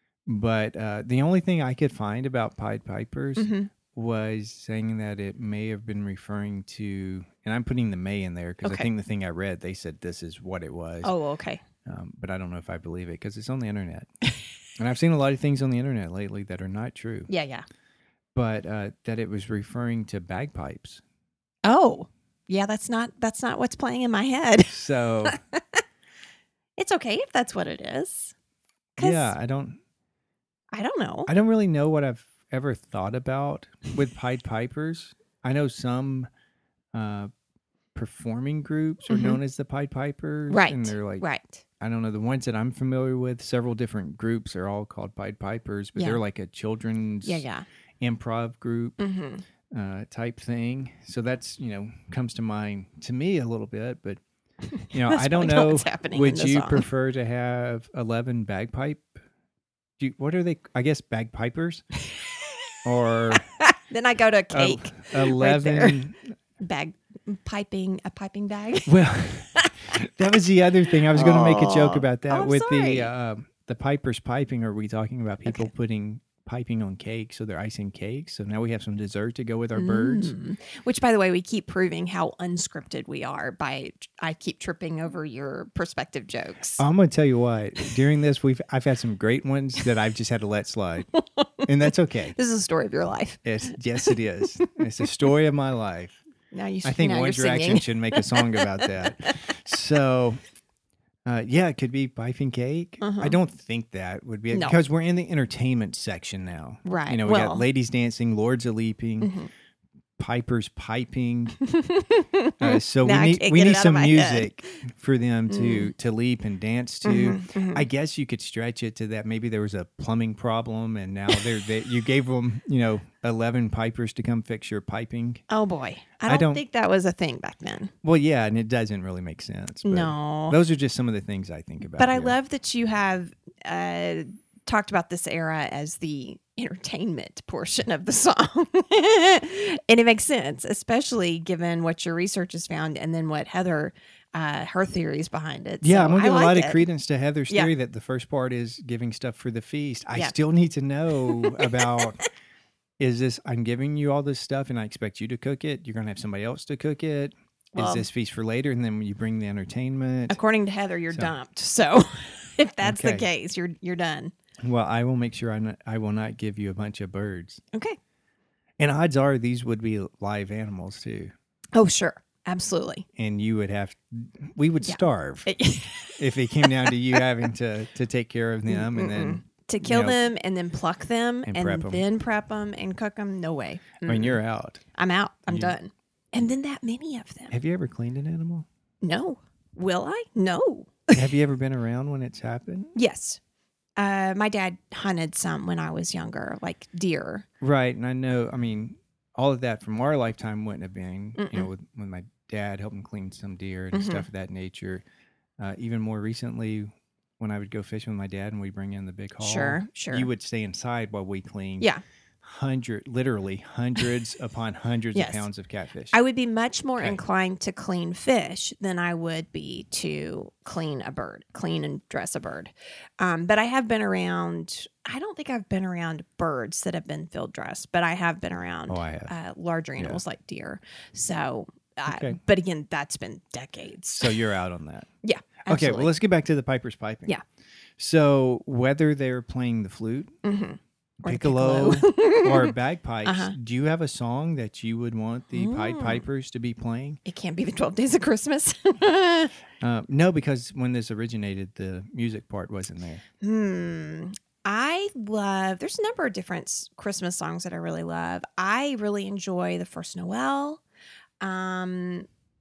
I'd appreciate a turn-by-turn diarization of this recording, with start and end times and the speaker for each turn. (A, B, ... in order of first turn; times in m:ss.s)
0:00.3-0:11.1 A
0:03.4-0:03.7 B
0:08.6-0:08.9 B
0:11.0-0:11.6 B
0:11.8-0:14.1 A
0:14.8-0:17.3 A
0:17.3-0:17.6 B
0:18.4-0:21.0 A
0:21.6-0:25.8 B
0:24.7-0:25.4 A
0:26.8-0:28.3 B
0:29.0-0:29.4 B
0:29.0-0:29.8 A
0:30.7-0:31.3 B
0:31.3-0:36.3 A
0:36.9-0:37.3 A
0:38.0-0:41.3 A
0:39.1-0:39.4 B
0:40.5-0:41.6 B
0:41.8-0:47.5 A
0:46.0-0:46.2 B
0:47.2-0:47.6 B
0:48.0-0:49.0 A
0:49.0-0:49.4 B
0:49.7-0:54.2 A
0:54.9-0:56.9 B
0:54.9-0:59.1 A
1:00.0-1:01.8 A
1:02.8-1:03.5 A
1:03.4-1:06.0 B
1:04.5-1:06.2 A
1:06.6-1:09.0 B
1:08.9-1:20.3 A
1:09.6-1:10.0 B
1:10.9-1:13.1 B
1:15.4-1:15.7 B
1:19.8-1:26.8 B
1:26.8-1:31.1 A
1:31.2-1:31.5 B
1:31.7-1:32.4 A
1:32.3-1:34.2 B
1:33.4-1:36.2 A
1:36.5-1:39.4 B
1:36.8-1:40.4 A
1:41.2-1:49.3 A
1:43.0-1:43.4 B
1:44.5-1:44.8 B
1:46.8-1:47.6 B
1:49.2-1:49.5 B
1:50.2-1:51.6 A
1:51.6-1:54.6 B
1:52.6-2:05.4 A
1:55.5-1:55.9 B
1:57.0-1:57.9 B
2:05.5-2:07.9 B
2:06.3-2:06.6 A
2:08.0-2:12.4 A
2:09.8-2:10.6 B
2:11.9-2:26.9 B
2:25.8-2:32.2 A
2:31.2-2:32.0 B
2:33.0-2:40.4 A
2:37.7-2:38.1 B
2:40.3-2:44.3 B
2:42.8-2:43.3 A
2:44.6-2:47.6 A
2:48.8-2:51.3 A
2:51.8-2:53.0 B
2:53.2-2:55.5 A
2:54.8-2:57.2 B
2:56.2-3:00.2 A
2:58.7-3:04.4 B
3:01.5-3:02.0 A
3:04.1-3:04.8 A
3:05.0-3:07.5 B
3:05.5-3:05.8 A
3:07.5-3:08.7 A
3:09.0-3:11.3 B
3:11.1-3:12.9 A
3:13.0-3:13.4 B
3:14.0-3:17.4 B
3:17.6-3:25.0 A
3:21.4-3:21.7 B
3:23.9-3:24.3 B
3:25.6-3:31.9 A
3:29.4-3:30.3 B
3:32.4-3:36.2 A
3:35.1-3:35.5 B
3:36.1-3:54.4 B
3:48.9-3:49.3 A
3:52.1-3:52.4 A
3:54.1-3:55.1 A
3:55.2-3:56.1 B
3:55.7-3:57.4 A
3:58.0-4:00.3 A
4:00.4-4:03.5 B
4:01.2-4:07.2 A
4:05.5-4:06.3 B
4:07.2-4:09.5 B
4:09.8-4:13.2 A
4:13.4-4:20.8 B
4:21.4-4:22.3 B